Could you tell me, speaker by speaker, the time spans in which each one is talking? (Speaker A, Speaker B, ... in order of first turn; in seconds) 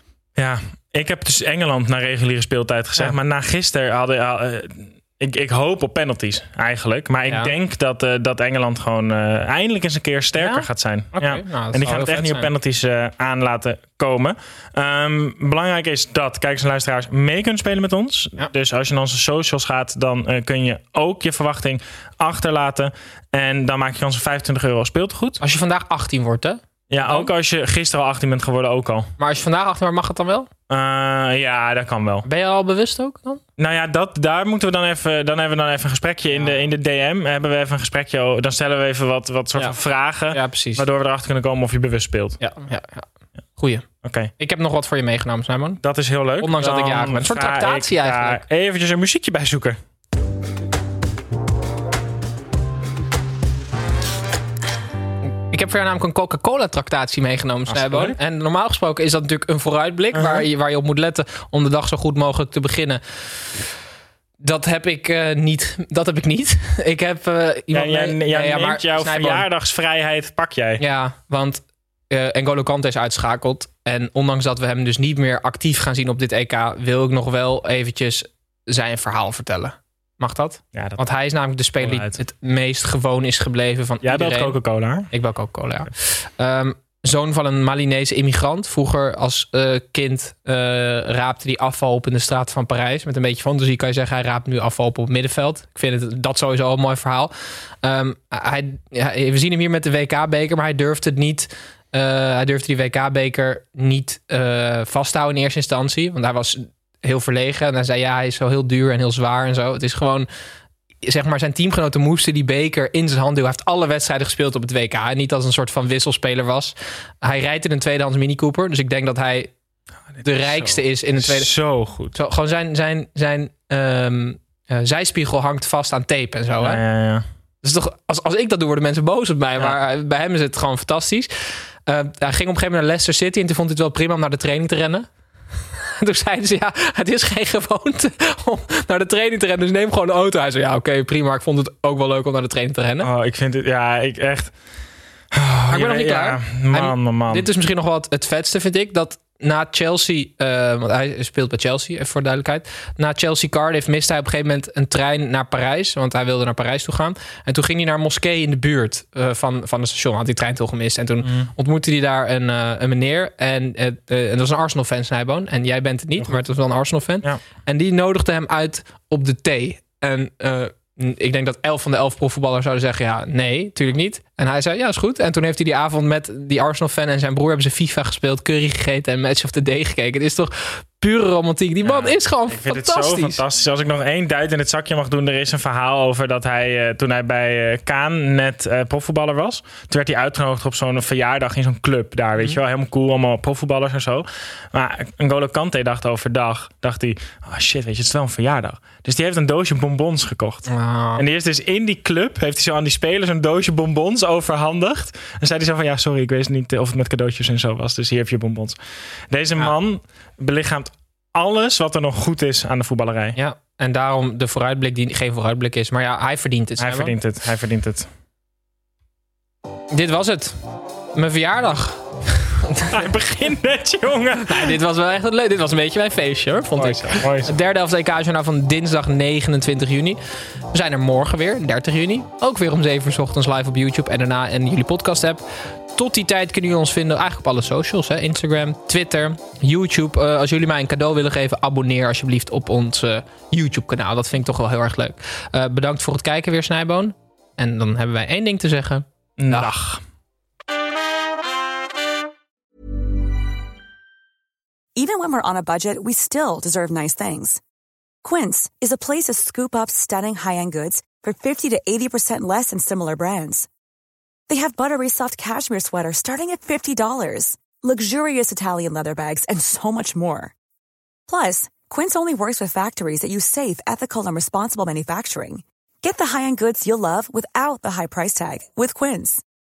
Speaker A: 0.4-25.4, 26.9-29.1, 30.7-32.2, 33.6-42.4, 44.0-44.3, 45.8-49.8, 57.7-58.2, 60.1-60.5, 67.7-70.8, 80.7-81.0, 81.8-82.2, 84.0-85.1, 120.2-122.2, 126.6-127.2, 143.0-144.5, 145.3-147.5, 161.2-161.5, 181.8-208.8, 209.3-213.4, 216.8-218.1, 222.9-224.8, 226.8-227.5, 249.4-250.0
Speaker B: 7.3-7.5, 10.3-12.5, 25.4-27.3, 29.2-30.5, 32.2-33.4, 36.3-36.7, 40.3-40.9, 42.4-43.1, 43.6-43.9, 44.4-45.8, 46.4-48.4, 55.2-63.0, 64.4-69.5, 70.8-84.6, 85.1-110.3, 111.0-119.5, 120.2-121.5, 122.1-126.8, 127.6-131.3, 131.8-135.1, 135.8-143.1, 145.7-183.4, 200.7-201.2, 213.3-217.2, 219.9-220.6, 221.1-223.0, 224.4-230.2, 230.7-249.7
Speaker C: 255.0-257.6, 258.2-263.7, 264.5-270.5, 271.3-279.4